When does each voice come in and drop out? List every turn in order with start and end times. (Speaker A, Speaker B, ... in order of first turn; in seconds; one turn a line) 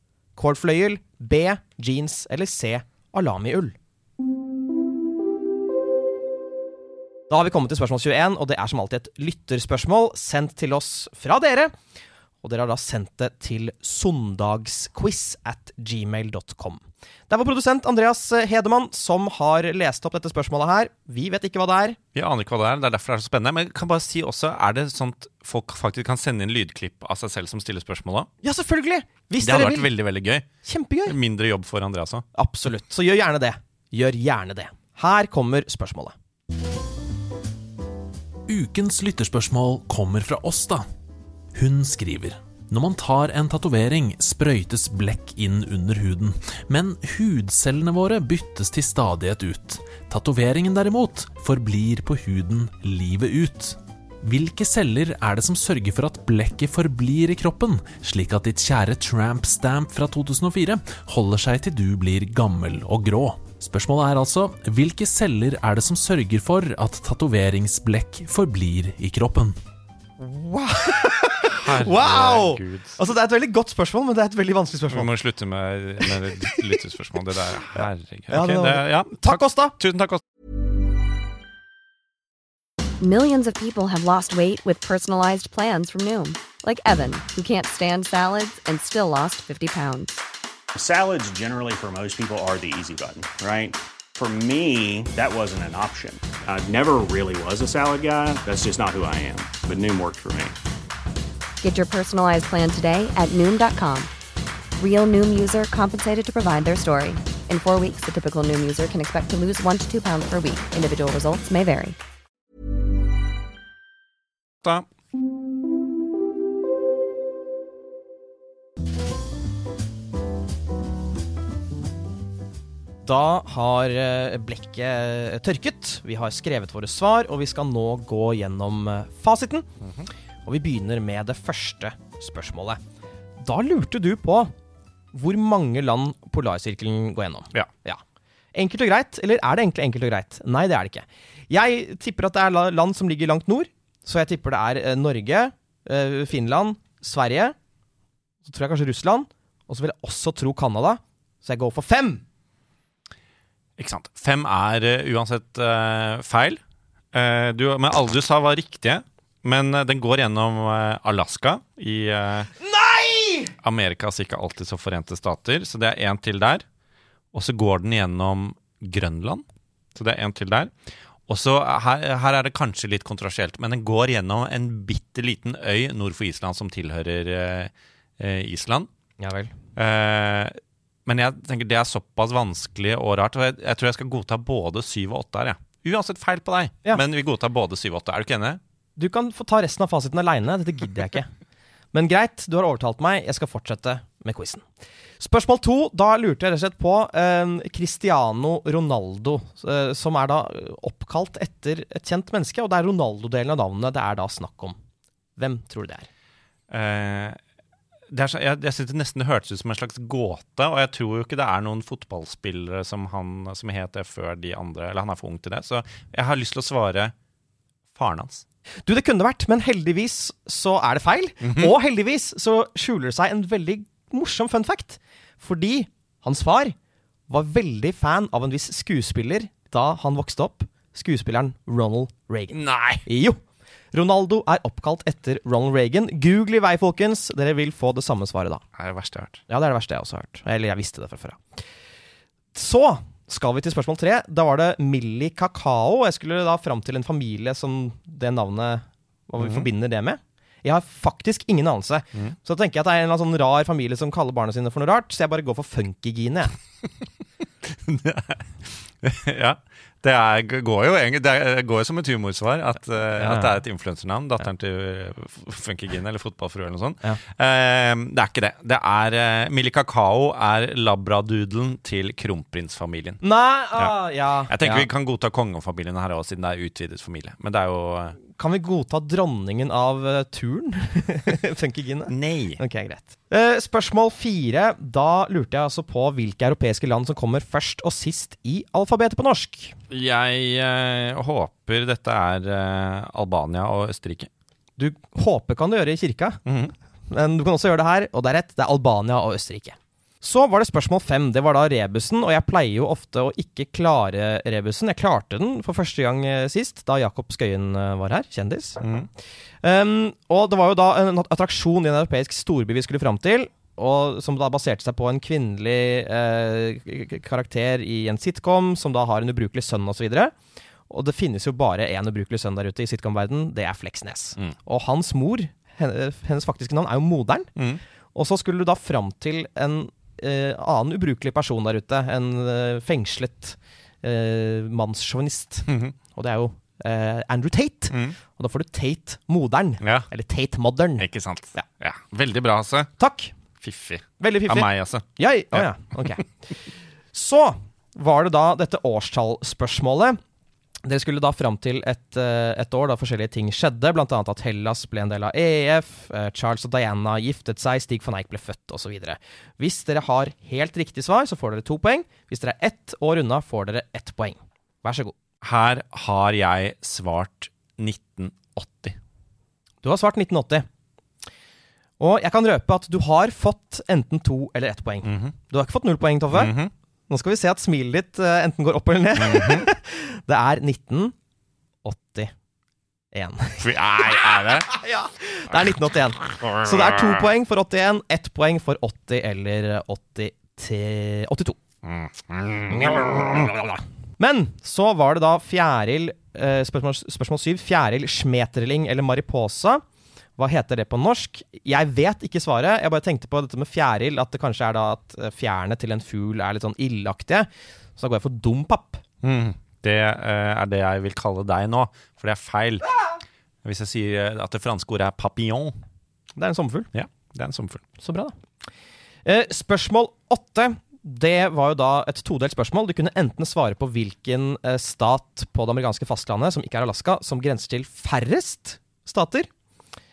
Speaker A: 0.4-3.8
Speaker A: 7.3-11.7
Speaker A: 12.4-22.0
Speaker B: 22.1-28.3
Speaker A: 28.4-29.9
Speaker B: 29.4-30.5
Speaker A: 30.6-31.2
Speaker B: 31.1-32.2
Speaker A: 32.4-36.1
Speaker C: 38.5-40.9
Speaker C: 41.5-69.6
Speaker A: 70.2-75.1
Speaker B: 71.5-73.0
Speaker B: 74.9-80.2
Speaker A: 76.0-76.8
Speaker A: 77.8-79.8
Speaker D: 83.0-90.2
Speaker E: 90.8-100.5
Speaker D: 101.6-104.1
Speaker D: 104.8-112.0
Speaker A: 123.0-129.7
Speaker A: 130.5-132.8
Speaker A: 133.4-134.5
Speaker A: 135.1-138.0
Speaker A: 138.5-147.6
Speaker A: 148.4-152.2
Speaker B: 153.8-156.6
Speaker B: 157.1-162.5
Speaker A: 162.6-163.5
Speaker B: 163.6-166.7
Speaker B: 167.3-169.4
Speaker B: 170.0-170.7
Speaker B: 171.3-178.9
Speaker A: 179.2-179.5
Speaker B: 179.8-188.6
Speaker A: 189.0-191.3
Speaker A: 191.9-194.7
Speaker A: 195.2-204.8
Speaker A: 205.4-206.1
Speaker B: 206.7-207.4
Speaker B: 208.1-217.1
Speaker B: 217.9-218.4
Speaker A: 218.8-226.8
Speaker B: 221.4-221.7
Speaker A: 227.3-238.6
Speaker B: 232.5-233.1
Speaker B: 238.8-239.4
Speaker A: 239.5-241.4
Speaker A: 242.5-256.6
Speaker B: 249.4-249.7
Speaker B: 257.6-273.2
Speaker A: 263.2-263.6
Speaker A: 273.2-274.9
Speaker B: 274.5-278.2
Speaker A: 278.4-289.8
Speaker B: 282.1-282.6
Speaker B: 289.9-294.3
Speaker A: 294.8-296.4
Speaker B: 296.5-296.7
Speaker A: 297.1-308.8
Speaker B: 308.8-309.1
Speaker A: 309.6-320.3
Speaker A: 320.9-327.5
Speaker B: 327.6-327.8
Speaker A: 328.1-341.6
Speaker B: 335.7-335.9
Speaker B: 337.9-338.2
Speaker B: 339.8-340.1
Speaker B: 341.0-342.9
Speaker A: 343.0-343.3
Speaker B: 343.6-346.2
Speaker A: 344.2-346.3
Speaker A: 347.1-350.2
Speaker A: 350.8-365.2
Speaker B: 365.4-369.0
Speaker A: 369.8-370.7
Speaker A: 372.0-376.5
Speaker B: 375.0-375.3
Speaker B: 376.3-376.7
Speaker A: 377.1-381.1
Speaker B: 379.2-379.7
Speaker A: 381.8-382.3
Speaker A: 383.1-391.6
Speaker B: 383.6-384.7
Speaker B: 391.9-393.6
Speaker A: 392.8-393.5
Speaker A: 394.2-399.8
Speaker A: 400.4-409.0
Speaker B: 409.2-412.9
Speaker B: 413.6-415.8
Speaker A: 416.4-416.9
Speaker B: 416.9-417.8
Speaker A: 418.0-418.4
Speaker A: 419.2-429.5